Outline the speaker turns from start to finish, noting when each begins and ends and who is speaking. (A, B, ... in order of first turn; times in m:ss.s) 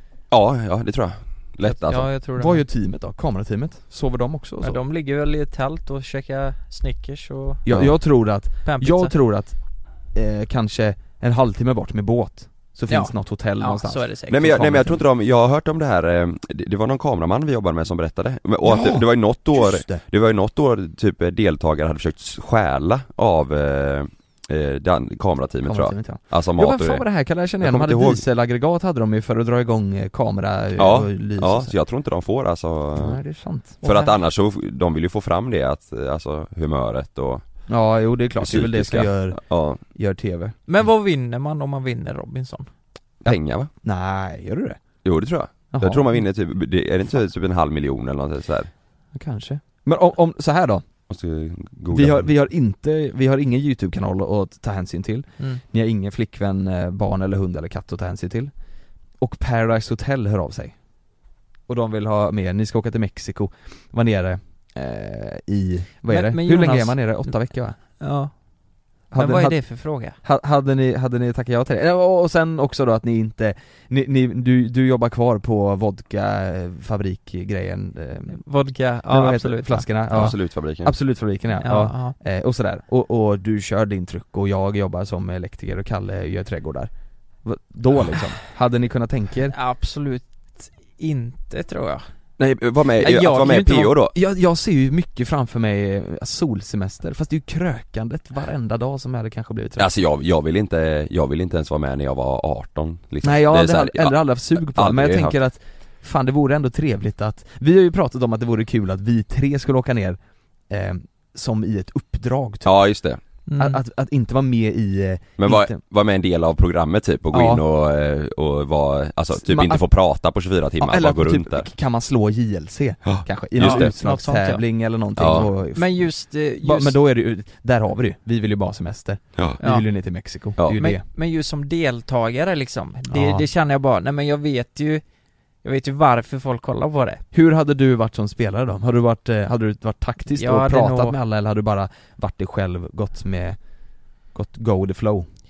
0:00.3-0:02.1 A
0:01.6-0:02.6 B
0:02.4-0:04.8 C
0:04.6-0:07.6 B
0:07.6-0:09.6 C
0:08.6-0:09.1 B
0:10.1-0:15.0 C
0:12.9-0:14.8 B
0:14.3-0:27.0 A
0:18.6-0:20.0 C
0:25.6-0:31.7 C
0:27.6-0:28.2 A
0:30.8-0:33.2 A
0:33.0-0:33.8 C
0:33.8-0:34.1 B
0:33.8-0:37.4 A
0:37.7-0:40.5 C
0:38.4-0:39.8 A
0:40.7-0:42.7 B
0:43.2-0:43.7 A
0:43.2-0:44.8 C
0:45.0-0:48.7 A
0:45.7-0:46.0 C
0:49.1-0:50.8 C
0:51.1-0:52.3 A
0:51.9-0:58.5 C
0:59.2-1:00.8 C
1:01.7-1:07.8 C
1:06.1-1:08.3 B
1:09.1-1:10.2 B
1:09.1-1:18.4 C
1:18.3-1:20.3 B
1:19.1-1:26.9 C
1:20.1-1:20.9 A
1:21.6-1:22.2 B
1:27.4-1:29.5 C
1:29.5-1:32.0 B
1:32.4-1:34.1 A
1:33.0-1:33.9 B
1:33.1-1:39.9 C
1:39.8-1:45.4 A
1:43.2-1:52.7 C
1:52.6-1:53.2 A
1:53.5-1:53.8 B
1:53.6-1:55.8 C
1:55.4-2:01.7 A
1:57.3-1:57.6 C
1:59.3-1:59.9 C
2:00.8-2:06.1 C
2:03.0-2:03.9 A
2:03.6-2:04.6 B
2:05.2-2:05.5 A
2:05.7-2:07.0 B
2:06.6-2:11.0 C
2:10.7-2:15.0 B
2:13.1-2:13.4 C
2:15.6-2:17.2 B
2:17.3-2:23.6 C
2:20.3-2:21.2 B
2:24.3-2:25.3 C